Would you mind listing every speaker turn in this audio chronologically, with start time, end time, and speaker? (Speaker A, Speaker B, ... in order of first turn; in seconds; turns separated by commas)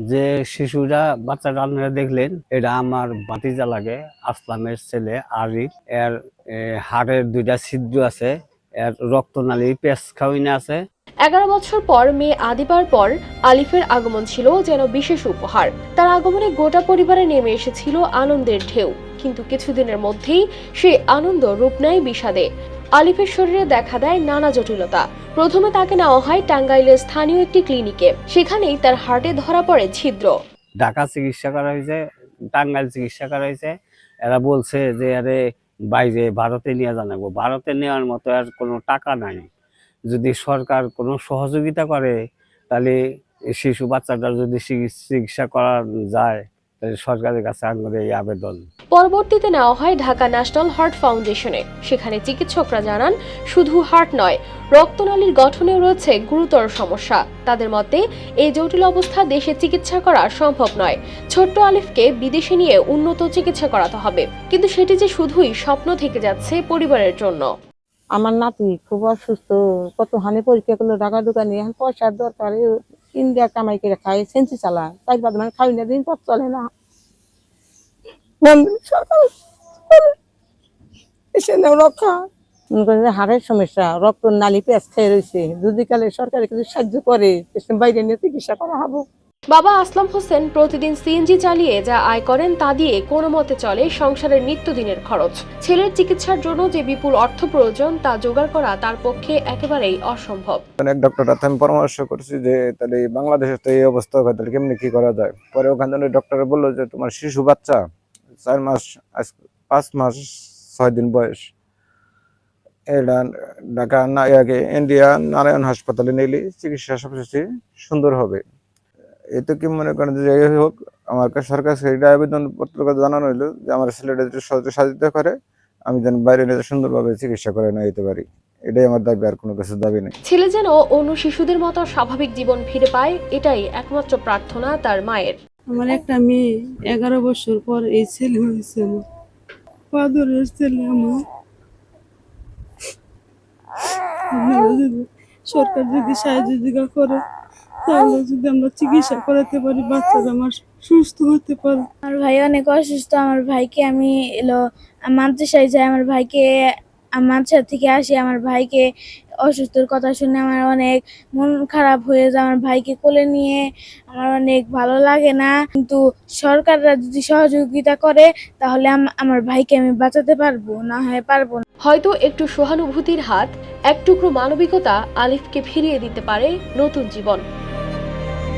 Speaker A: 0.1-10.8, Speaker B: 11.2-30.3, Speaker A: 30.8-32.0, Speaker A: 32.5-33.7, Speaker A: 34.2-35.4, Speaker A: 35.9-39.5, Speaker A: 40.1-42.1, Speaker A: 42.7-43.0, Speaker A: 43.5-48.6, Speaker B: 48.9-67.5, Speaker C: 68.1-76.7, Speaker C: 78.4-79.3, Speaker C: 81.3-82.2, Speaker C: 82.8-89.0, Speaker B: 89.5-100.6, Speaker D: 100.8-107.8, Speaker D: 108.4-111.4, Speaker D: 112.9-118.4, Speaker D: 119.3-125.3, Speaker D: 125.9-130.1, Speaker B: 130.3-135.4, Speaker E: 135.7-139.0, Speaker E: 139.9-141.2, Speaker E: 143.8-147.2, Speaker E: 147.8-151.9, Speaker F: 152.1-154.6, Speaker F: 155.1-156.5, Speaker F: 157.2-158.8, Speaker F: 159.4-171.6, Speaker B: 171.9-177.4